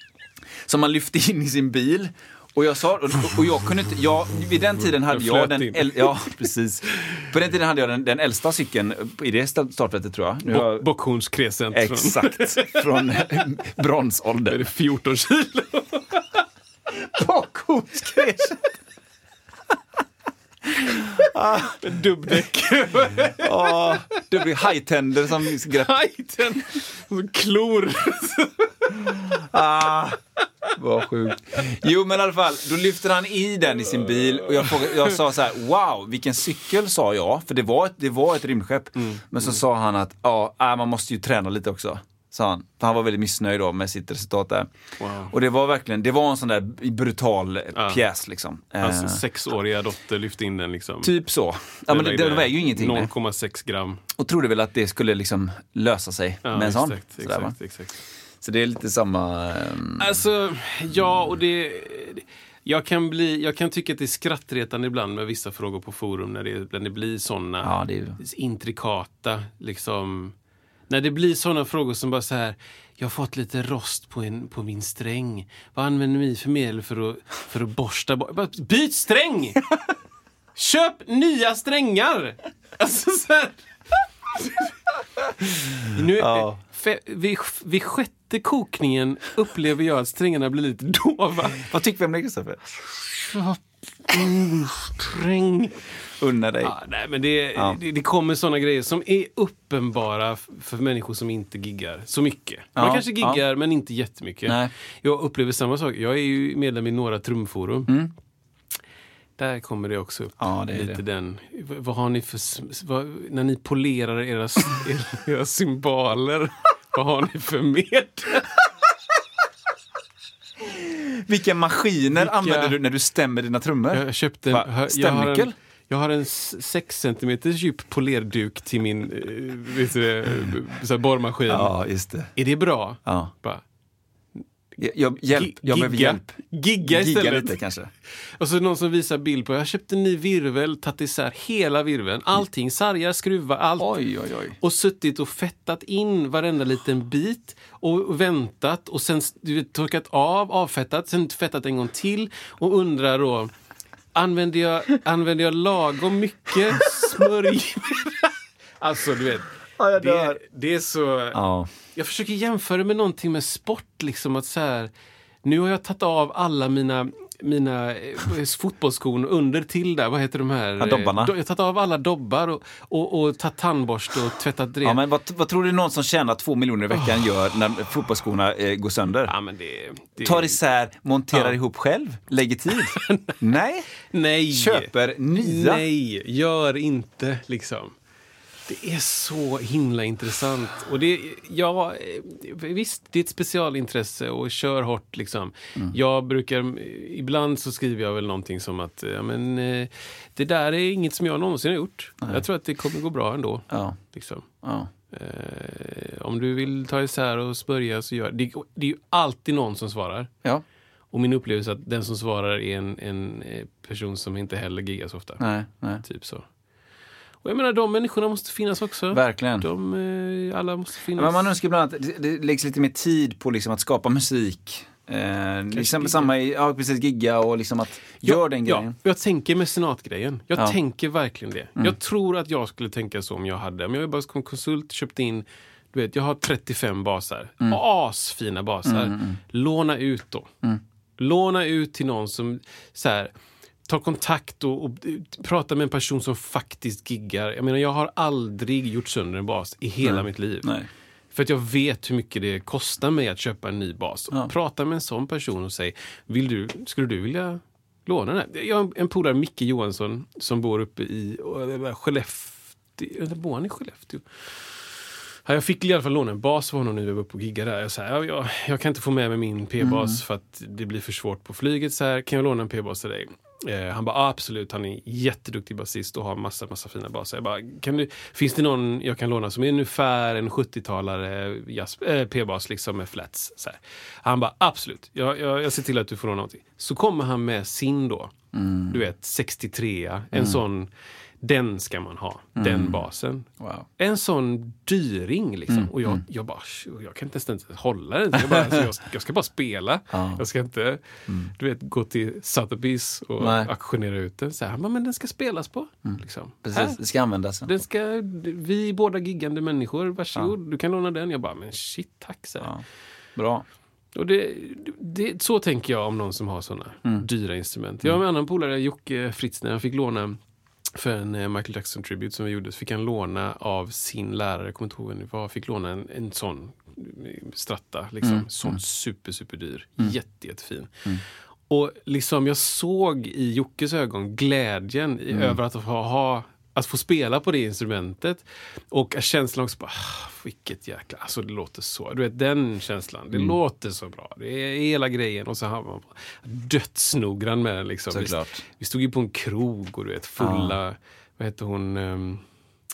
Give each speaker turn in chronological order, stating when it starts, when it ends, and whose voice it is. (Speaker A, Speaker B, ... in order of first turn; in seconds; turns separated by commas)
Speaker A: 0.7-10.9, Speaker B: 5.0-6.3, Speaker B: 7.0-7.3, Speaker B: 10.5-13.1, Speaker A: 11.7-14.7, Speaker B: 14.5-16.4, Speaker A: 17.1-18.6, Speaker B: 18.2-18.5, Speaker A: 20.6-21.8, Speaker B: 21.7-24.4, Speaker A: 23.4-25.9, Speaker B: 25.4-29.2, Speaker A: 29.2-30.2, Speaker A: 30.8-44.7, Speaker B: 34.5-35.2, Speaker B: 39.0-39.6, Speaker B: 45.0-45.3, Speaker A: 45.3-49.2, Speaker B: 47.8-48.0, Speaker B: 48.8-51.1, Speaker A: 51.0-53.1, Speaker B: 51.9-54.0, Speaker A: 54.2-57.5, Speaker B: 56.4-58.0, Speaker A: 58.4-60.1, Speaker B: 60.0-70.3, Speaker A: 67.6-68.2, Speaker B: 70.9-79.6, Speaker B: 80.6-83.7, Speaker B: 84.4-84.7, Speaker B: 85.9-91.7, Speaker A: 86.2-86.6, Speaker A: 91.6-92.6, Speaker B: 93.1-95.8, Speaker A: 96.2-96.8, Speaker B: 96.6-107.9, Speaker A: 97.5-97.8, Speaker A: 102.8-103.4, Speaker A: 104.5-104.7, Speaker A: 107.9-108.1, Speaker B: 109.4-118.5, Speaker A: 110.4-111.0, Speaker A: 120.7-125.5, Speaker B: 122.2-122.8, Speaker B: 123.9-131.7, Speaker A: 131.5-132.3, Speaker B: 132.3-133.6, Speaker A: 133.1-133.3, Speaker A: 134.8-137.9, Speaker B: 135.3-137.6, Speaker B: 138.4-144.0, Speaker A: 143.8-144.6, Speaker B: 144.6-153.5, Speaker B: 154.1-164.9, Speaker A: 159.8-160.4, Speaker A: 161.3-161.7, Speaker B: 165.4-175.0, Speaker A: 170.8-171.3, Speaker A: 174.8-179.3, Speaker B: 176.9-177.2, Speaker B: 179.3-180.6, Speaker A: 180.2-185.8, Speaker B: 182.7-183.4, Speaker B: 184.1-188.0, Speaker B: 188.7-204.5, Speaker A: 203.7-204.0, Speaker A: 204.6-204.9, Speaker B: 205.1-210.3, Speaker B: 211.1-215.4, Speaker A: 215.4-216.0, Speaker B: 216.0-216.5, Speaker B: 217.4-221.5, Speaker A: 219.1-219.7, Speaker A: 221.2-228.9, Speaker B: 225.7-226.3, Speaker B: 228.2-240.5, Speaker A: 238.8-239.4, Speaker B: 241.2-243.3, Speaker B: 243.9-250.7, Speaker A: 250.0-250.9, Speaker B: 251.3-288.3, Speaker A: 269.8-270.2, Speaker A: 288.5-289.0, Speaker B: 288.9-290.9, Speaker A: 290.3-290.6, Speaker B: 291.4-301.0, Speaker A: 292.6-293.1, Speaker A: 293.6-293.9, Speaker A: 295.7-296.2, Speaker A: 298.4-298.8, Speaker A: 300.1-300.4, Speaker A: 301.3-301.5, Speaker B: 301.5-307.0, Speaker A: 303.4-303.7, Speaker A: 306.1-307.7, Speaker B: 307.7-312.7, Speaker A: 313.4-313.6, Speaker B: 314.1-320.4, Speaker B: 320.9-331.0, Speaker A: 328.2-328.8, Speaker B: 331.7-352.4, Speaker A: 335.3-335.6, Speaker A: 348.1-348.6, Speaker A: 350.4-350.8